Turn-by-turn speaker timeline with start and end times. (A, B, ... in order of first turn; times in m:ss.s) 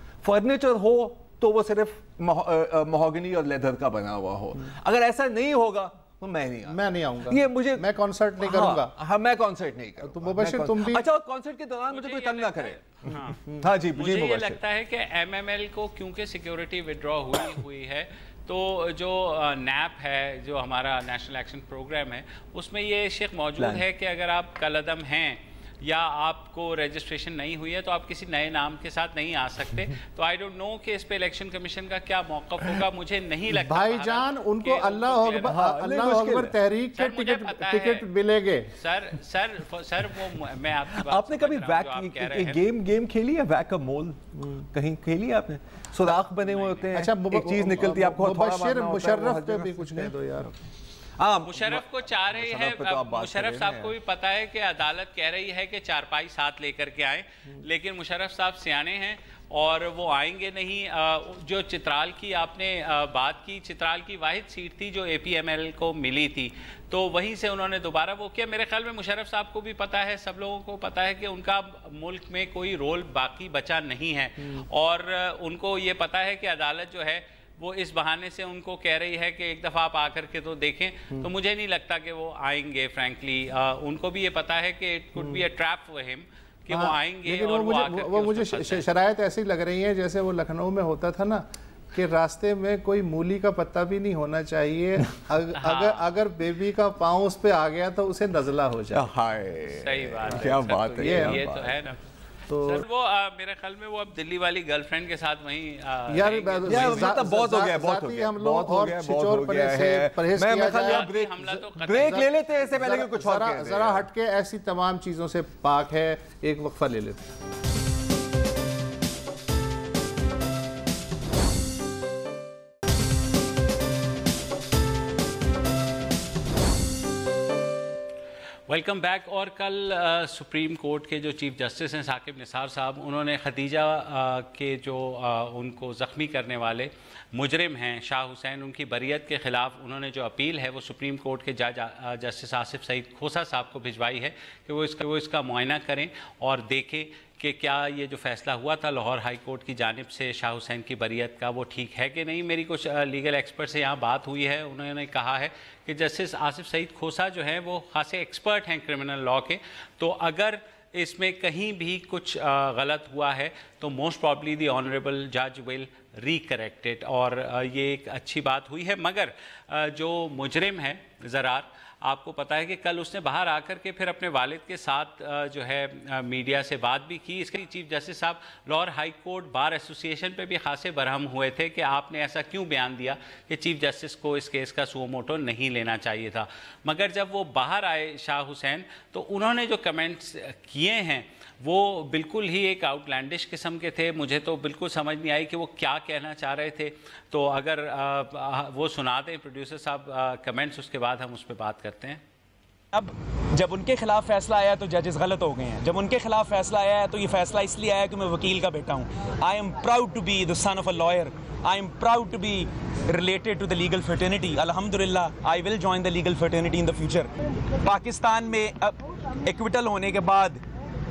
0:00.2-0:14.6 A
0:06.6-0:09.0 B
0:10.0-0:11.0 B
0:11.9-0:13.4 C
0:13.9-0:35.6 C
0:23.6-0:23.8 A
0:33.5-0:38.7 B
0:35.4-0:36.6 A
0:36.9-0:38.0 C
0:38.7-0:42.6 C
0:40.9-0:50.1 A
0:46.6-0:46.8 C
0:46.9-0:50.5 B
0:51.2-0:53.9 A
0:51.4-1:28.8 C
1:26.7-1:39.0 B
1:35.6-1:36.0 C
1:38.9-1:41.8 A
1:39.7-1:42.0 C
1:41.0-1:41.4 B
1:42.5-1:42.8 B
1:42.6-1:47.0 C
1:46.1-1:57.3 B
1:46.7-1:54.1 A
1:50.8-1:52.3 C
2:08.7-3:22.2 C
3:22.9-3:37.3 D
3:37.8-3:40.6 D